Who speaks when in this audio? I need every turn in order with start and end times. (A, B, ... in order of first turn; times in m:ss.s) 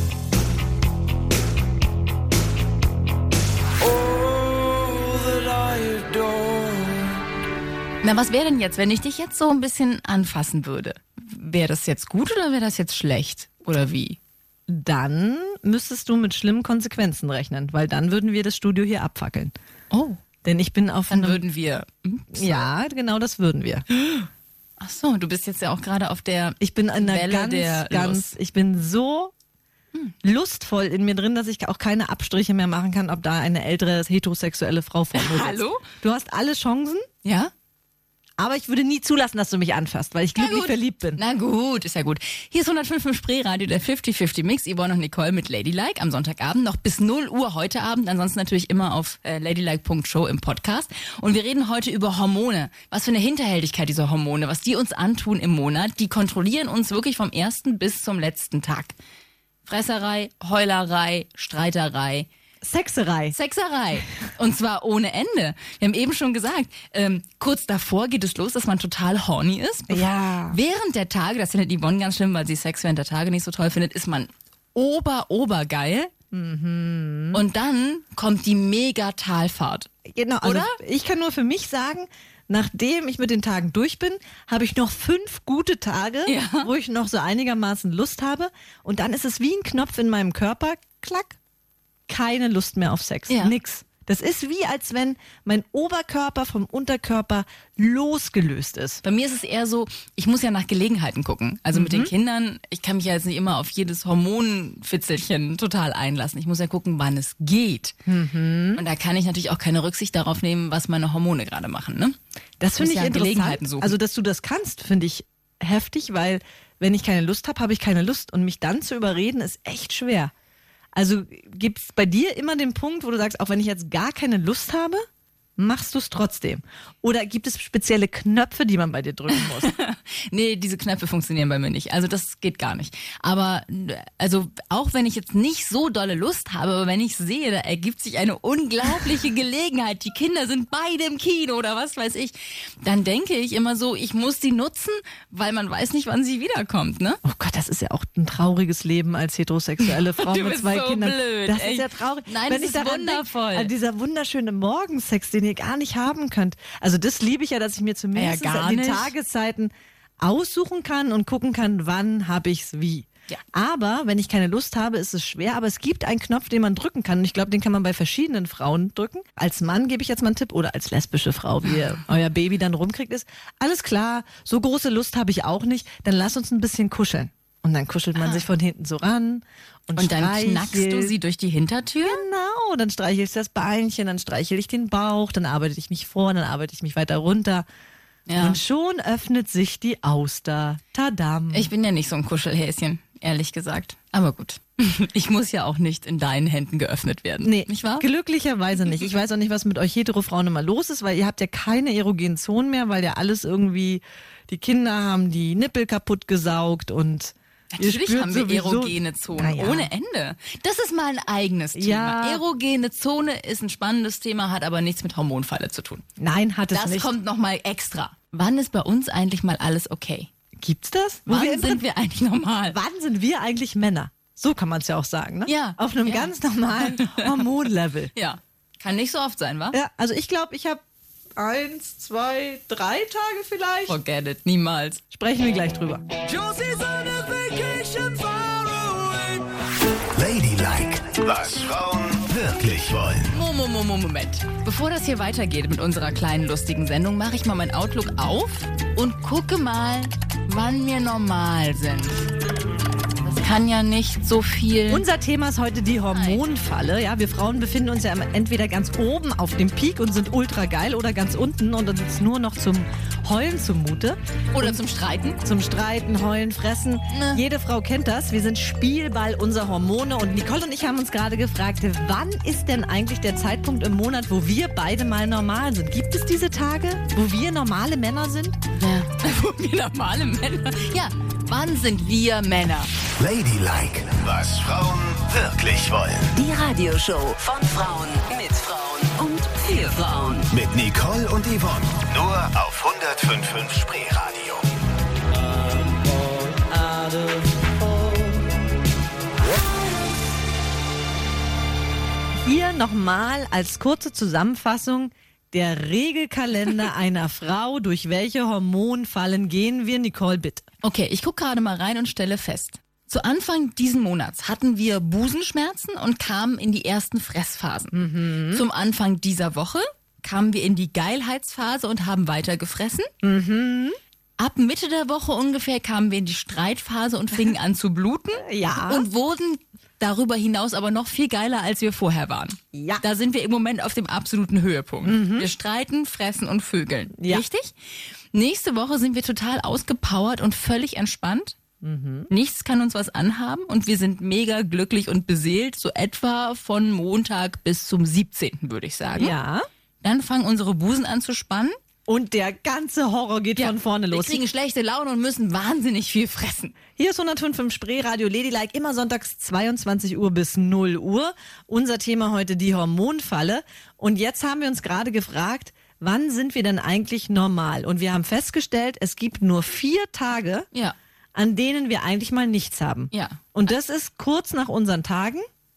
0:03.8-0:07.2 A
0:08.0-0:14.2 B
0:14.7-0:19.5 C
0:19.9-0:20.2 B
0:20.4-0:21.4 C
0:21.1-0:22.6 B
0:22.3-0:23.8 C
0:23.9-0:24.3 B
0:24.8-0:28.3 B
0:26.6-0:29.3 C
0:30.2-0:37.0 C
0:35.1-0:35.8 B
0:37.2-0:37.5 B
0:38.4-0:41.2 C
0:40.4-0:58.9 B
0:59.6-1:02.3 B
1:02.6-1:03.3 C
1:03.3-1:16.1 B
1:09.9-1:10.6 C
1:16.3-1:17.4 C
1:17.3-1:19.9 B
1:20.0-1:31.4 C
1:20.4-1:20.8 B
1:26.2-1:26.7 B
1:32.1-1:39.0 C
1:39.0-1:47.9 B
1:41.7-1:42.1 C
1:48.1-1:48.8 C
1:48.7-1:52.2 B
1:52.6-2:00.3 C
1:52.8-1:54.0 B
2:00.9-2:05.0 C
2:05.6-2:09.7 C
2:09.5-2:27.2 B
2:27.2-3:01.1 C
2:29.8-2:33.7 B
2:38.1-2:39.1 B
2:58.2-2:58.4 B
3:00.0-3:02.2 B
3:02.0-3:07.6 C
3:08.3-3:08.6 B
3:08.4-3:11.7 C
3:11.5-3:18.0 B
3:17.4-3:29.9 C
3:27.7-3:36.0 B
3:31.7-3:32.4 C
3:36.2-3:37.1 C
3:36.7-3:40.3 B
3:40.6-3:41.8 C
3:41.3-3:42.8 B
3:42.7-3:48.1 C
3:45.4-3:47.5 B
3:48.1-3:49.8 B
3:49.7-3:50.8 C
3:51.4-3:54.0 C
3:53.9-3:55.0 B
3:55.1-3:56.0 C
3:56.4-3:59.4 A
3:56.4-3:56.7 B
4:00.1-4:03.4 D
4:03.3-4:12.2 B
4:13.2-4:15.0 B
4:14.9-4:24.8 C
4:16.1-4:16.4 B
4:24.5-4:25.4 B
4:25.4-4:38.6 C
4:27.1-4:27.4 B
4:38.8-4:42.9 B
4:43.2-4:46.3 D
4:46.3-4:50.5 E
4:50.5-4:54.6 D
4:55.3-4:58.5 A
5:02.4-5:10.6 C
5:10.8-5:18.0 B
5:17.9-5:18.6 C
5:18.5-5:23.1 B
5:23.2-5:24.0 C
5:24.4-5:37.7 B
5:28.4-5:29.0 C
5:32.7-5:33.0 C
5:35.0-5:35.5 C
5:37.2-5:37.4 C
5:38.3-5:41.6 B
5:41.8-5:42.3 C
5:42.3-5:49.3 B
5:49.2-5:49.7 C
5:50.0-5:51.8 B
5:52.1-5:54.4 C
5:53.6-5:56.7 B
5:57.0-6:10.7 C
6:11.3-6:15.4 C
6:13.1-6:13.5 B